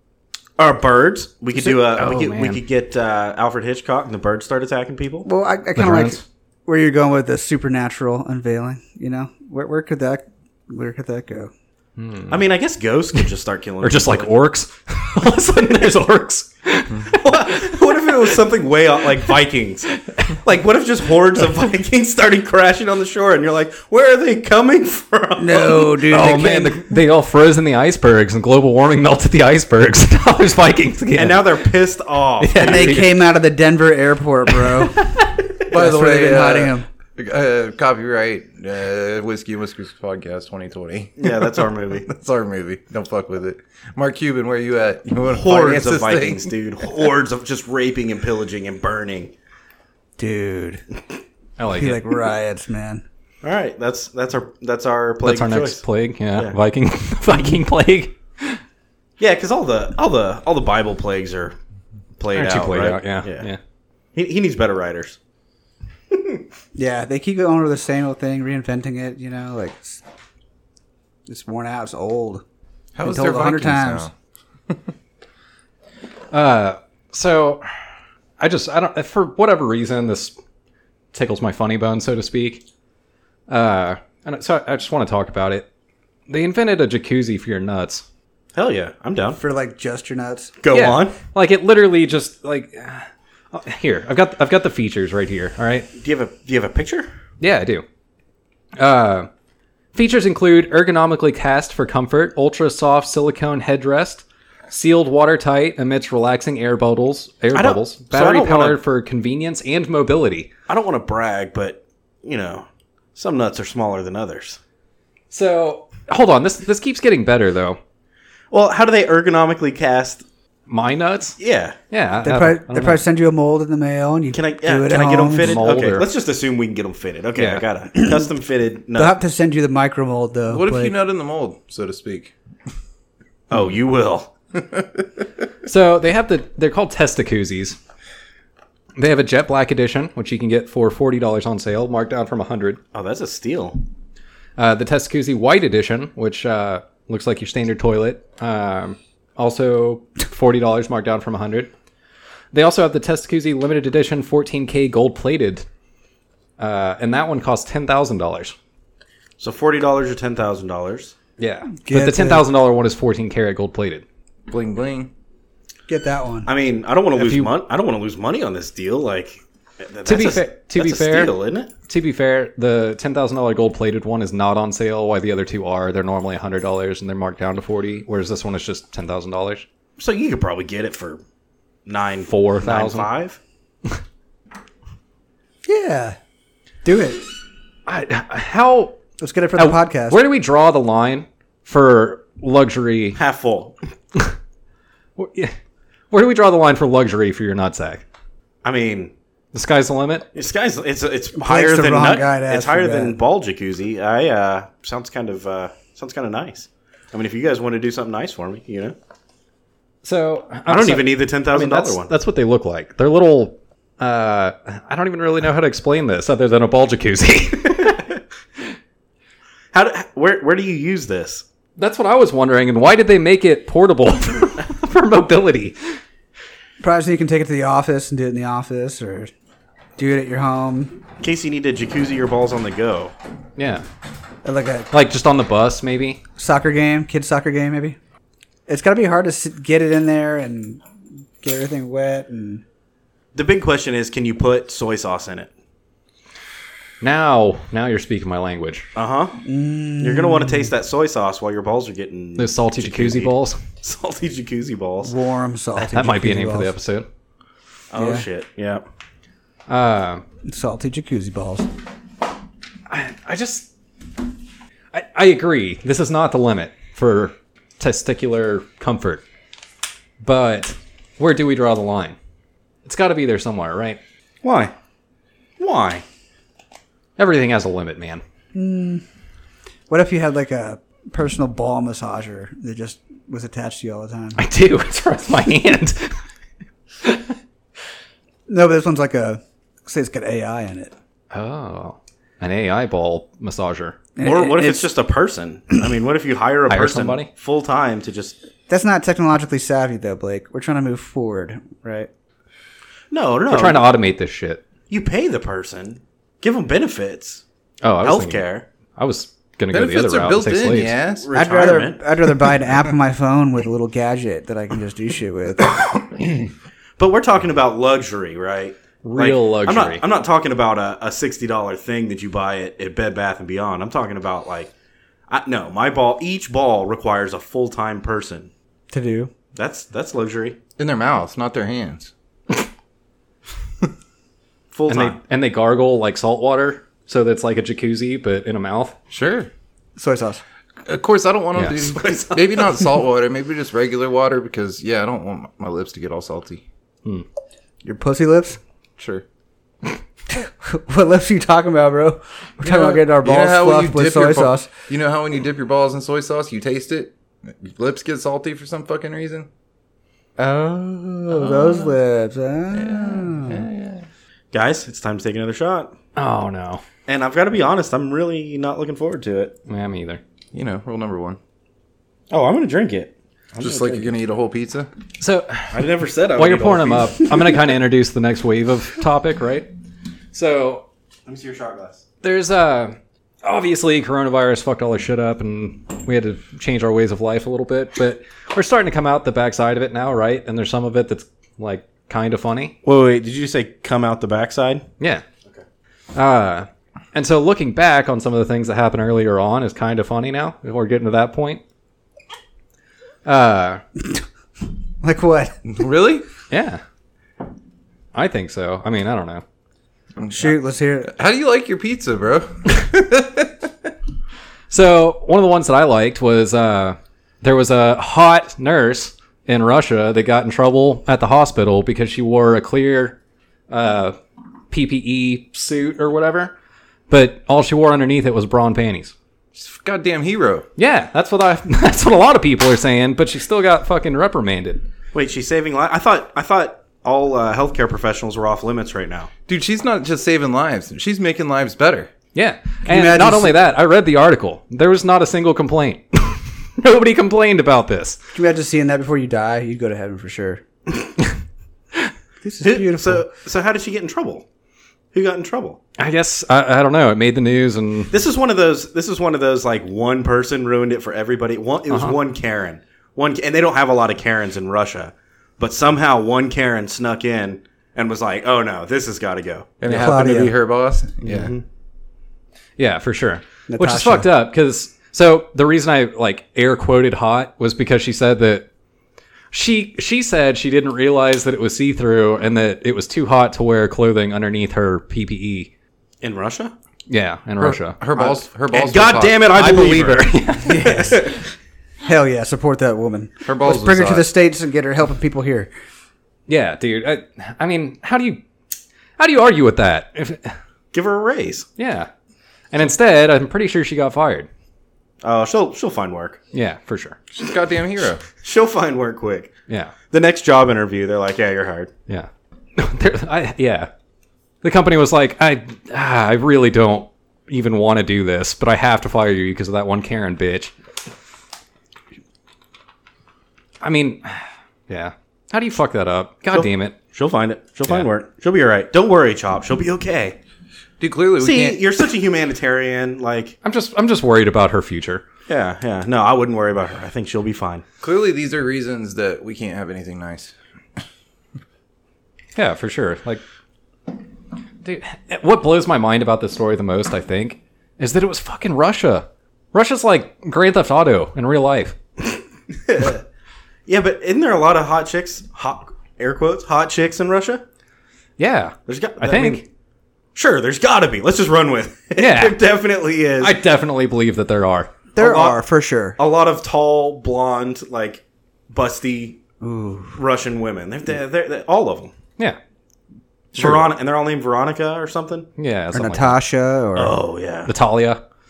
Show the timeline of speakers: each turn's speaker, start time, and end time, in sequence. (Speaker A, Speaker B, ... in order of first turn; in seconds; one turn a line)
Speaker A: 0.6-5.3
Speaker B: 1.6-2.6
Speaker C: 5.2-11.5
Speaker B: 5.8-6.2
Speaker B: 12.0-12.4
Speaker A: 12.3-14.3
Speaker B: 13.8-18.4
Speaker A: 17.1-26.0
Speaker C: 25.4-26.8
Speaker B: 26.0-31.7
Speaker A: 31.1-33.1
Speaker B: 32.4-33.2
Speaker C: 32.5-35.0
Speaker D: 35.7-46.5
Speaker C: 35.7-36.9
Speaker A: 41.2-42.1
Speaker A: 45.3-49.3
Speaker C: 50.2-50.9
Speaker B: 51.6-52.0
Speaker C: 51.7-53.0
Speaker A: 53.4-55.8
Speaker B: 55.2-58.6
Speaker A: 59.2-61.6
Speaker A: 62.2-63.5
Speaker B: 62.3-63.6
Speaker A: 64.2-65.2
Speaker A: 66.1-66.4
Speaker C: 66.8-70.0
Speaker C: 71.3-72.4
Speaker D: 73.0-74.1
Speaker C: 73.0-74.1
Speaker B: 76.3-77.7
Speaker B: 78.4-80.3
Speaker B: 81.1-82.6
Speaker B: 83.5-85.7
Speaker B: 86.3-88.0
Speaker A: 88.5-89.4
Speaker C: 89.4-90.5
Speaker A: 90.6-91.2
Speaker B: 90.7-95.9
Speaker A: 96.0-97.1
Speaker B: 97.4-97.8
Speaker B: 98.8-99.3
Speaker B: 99.9-110.5
Speaker A: 107.5-108.8
Speaker A: 110.7-114.6
Speaker B: 115.3-117.8
Speaker A: 118.5-120.2
Speaker B: 120.7-121.4
Speaker A: 121.4-121.8
Speaker B: 121.9-123.0
Speaker C: 122.2-125.6
Speaker A: 124.3-129.2
Speaker B: 125.4-126.1
Speaker B: 127.4-127.7
Speaker C: 128.0-128.2
Speaker C: 129.0-130.9
Speaker D: 130.5-132.3
Speaker A: 133.5-134.3
Speaker D: 134.6-135.2
Speaker B: 135.7-137.8
Speaker B: 139.0-142.8
Speaker A: 142.9-143.8
Speaker B: 144.6-151.7
Speaker B: 152.5-155.7
Speaker B: 156.6-158.6
Speaker A: 159.4-161.2
Speaker B: 161.4-164.1
Speaker C: 161.8-162.5
Speaker D: 164.5-165.1
Speaker C: 165.9-166.5
Speaker A: 166.5-171.7
Speaker B: 167.2-167.5
Speaker B: 170.1-171.3
Speaker B: 171.9-179.7
Speaker A: 180.0-181.2
Speaker A: 181.9-183.4
Speaker B: 182.3-183.1
Speaker C: 185.7-186.2
Speaker C: 186.8-187.3
Speaker B: 187.9-189.0
Speaker C: 189.2-190.2
Speaker B: 189.6-193.2
Speaker A: 193.2-193.8
Speaker B: 195.2-195.5
Speaker B: 196.1-198.0
Speaker A: 198.6-199.1
Speaker B: 199.5-200.3
Speaker A: 200.3-208.9
Speaker C: 201.3-203.2
Speaker B: 210.0-218.1
Speaker A: 210.7-212.1
Speaker A: 217.8-218.1
Speaker A: 219.7-221.4
Speaker B: 221.8-225.8
Speaker C: 226.8-229.3
Speaker C: 230.0-230.9
Speaker A: 231.2-233.1
Speaker B: 233.6-233.8
Speaker C: 234.4-234.9
Speaker B: 234.9-236.2
Speaker C: 236.4-238.0
Speaker C: 238.7-240.8
Speaker C: 241.4-242.6
Speaker A: 243.3-245.5
Speaker B: 247.0-248.9
Speaker A: 248.9-249.4
Speaker C: 249.4-250.7
Speaker A: 250.0-255.1
Speaker B: 252.4-253.6
Speaker C: 255.0-256.7
Speaker B: 255.8-257.1
Speaker A: 257.9-258.9
Speaker C: 257.9-258.2
Speaker B: 259.7-260.2
Speaker C: 260.5-261.7
Speaker B: 262.9-263.7
Speaker B: 264.9-269.2
Speaker B: 270.2-272.2
Speaker B: 272.9-274.0
Speaker A: 274.4-274.7
Speaker A: 275.6-276.0
Speaker B: 277.2-278.2
Speaker C: 278.5-279.0
Speaker C: 279.9-284.4
Speaker B: 284.4-286.1
Speaker B: 287.0-287.4
Speaker C: 288.5-290.9
Speaker B: 291.3-294.0
Speaker C: 294.2-294.9
Speaker A: 294.2-298.4
Speaker B: 296.7-297.3
Speaker C: 298.7-302.1
Speaker A: 303.1-303.9
Speaker B: 303.5-304.6
Speaker A: 304.9-307.4
Speaker B: 307.8-308.4
Speaker A: 308.0-308.6
Speaker B: 309.0-310.9
Speaker D: 309.7-311.9
Speaker A: 311.2-312.0
Speaker C: 311.3-315.8
Speaker A: 317.0-324.7
Speaker B: 319.0-320.0
Speaker A: 325.3-328.5
Speaker C: 328.9-329.3
Speaker A: 329.6-330.6
Speaker D: 330.8-332.1
Speaker A: 334.7-335.2
Speaker B: 334.9-339.0
Speaker D: 339.1-339.5
Speaker C: 340.0-340.4
Speaker D: 340.9-346.6
Speaker B: 341.6-341.8
Speaker A: 341.8-342.9
Speaker C: 347.8-348.6
Speaker D: 349.0-349.2
Speaker C: 350.3-354.7
Speaker D: 352.6-359.5
Speaker C: 360.4-363.6
Speaker D: 361.3-361.9
Speaker D: 362.7-364.1
Speaker A: 364.5-365.9
Speaker B: 366.2-366.8
Speaker A: 367.1-369.6
Speaker B: 369.7-370.2
Speaker D: 370.5-371.4
Speaker A: 372.3-374.1
Speaker D: 373.6-374.9
Speaker B: 375.2-375.8
Speaker A: 375.7-377.6
Speaker B: 376.4-379.7
Speaker B: 380.3-380.9
Speaker A: 381.3-382.0
Speaker B: 382.2-392.8
Speaker A: 392.8-394.9
Speaker B: 396.1-401.6
Speaker B: 403.2-403.8
Speaker C: 405.0-405.6
Speaker D: 405.6-406.2
Speaker B: 406.5-406.8
Speaker B: 408.1-409.4
Speaker D: 410.2-413.9
Speaker C: 410.3-411.1
Speaker B: 414.7-423.2
Speaker B: 423.7-424.2
Speaker B: 424.7-426.6
Speaker B: 427.1-429.1
Speaker D: 429.5-430.7
Speaker B: 430.8-434.8
Speaker A: 435.1-439.3
Speaker D: 439.5-442.1
Speaker B: 442.3-448.2
Speaker C: 442.9-443.6
Speaker C: 448.4-450.6
Speaker C: 452.4-453.2
Speaker A: 452.6-454.5
Speaker A: 455.1-455.8
Speaker B: 456.0-458.1
Speaker A: 458.1-469.7
Speaker B: 461.9-462.2
Speaker D: 469.8-471.5
Speaker C: 469.9-470.5
Speaker A: 471.3-471.6
Speaker B: 472.8-478.7
Speaker C: 473.7-474.3
Speaker B: 479.5-485.7
Speaker A: 486.2-486.7
Speaker B: 487.1-488.0
Speaker D: 487.6-489.8
Speaker A: 488.2-491.4
Speaker B: 489.5-491.2
Speaker C: 490.6-491.3
Speaker C: 492.0-495.7
Speaker D: 493.4-494.3
Speaker B: 496.5-498.4
Speaker B: 499.2-500.6
Speaker A: 500.9-501.7
Speaker B: 501.8-502.1
Speaker B: 502.7-504.5
Speaker A: 505.2-506.4
Speaker B: 506.5-507.2
Speaker D: 507.3-508.2
Speaker A: 508.4-509.5
Speaker B: 509.7-509.9
Speaker A: 510.1-511.9
Speaker B: 512.1-513.9
Speaker B: 514.6-520.7
Speaker B: 523.8-527.0
Speaker A: 526.5-530.4
Speaker D: 531.0-531.8
Speaker A: 531.4-533.6
Speaker B: 533.6-535.2
Speaker A: 535.5-537.8
Speaker D: 538.0-540.5
Speaker B: 542.5-543.4
Speaker B: 544.8-552.0
Speaker A: 552.8-553.2
Speaker A: 553.9-557.6
Speaker B: 558.4-559.6
Speaker A: 558.9-559.6
Speaker A: 560.4-563.6
Speaker B: 562.2-562.6
Speaker B: 563.4-564.9
Speaker C: 565.1-566.2
Speaker A: 565.2-565.6
Speaker A: 566.2-569.4
Speaker C: 569.6-570.2
Speaker A: 570.1-572.1
Speaker A: 573.5-575.5
Speaker B: 573.5-573.9
Speaker B: 575.6-576.4
Speaker C: 575.9-577.2
Speaker A: 577.0-577.7
Speaker B: 577.7-578.2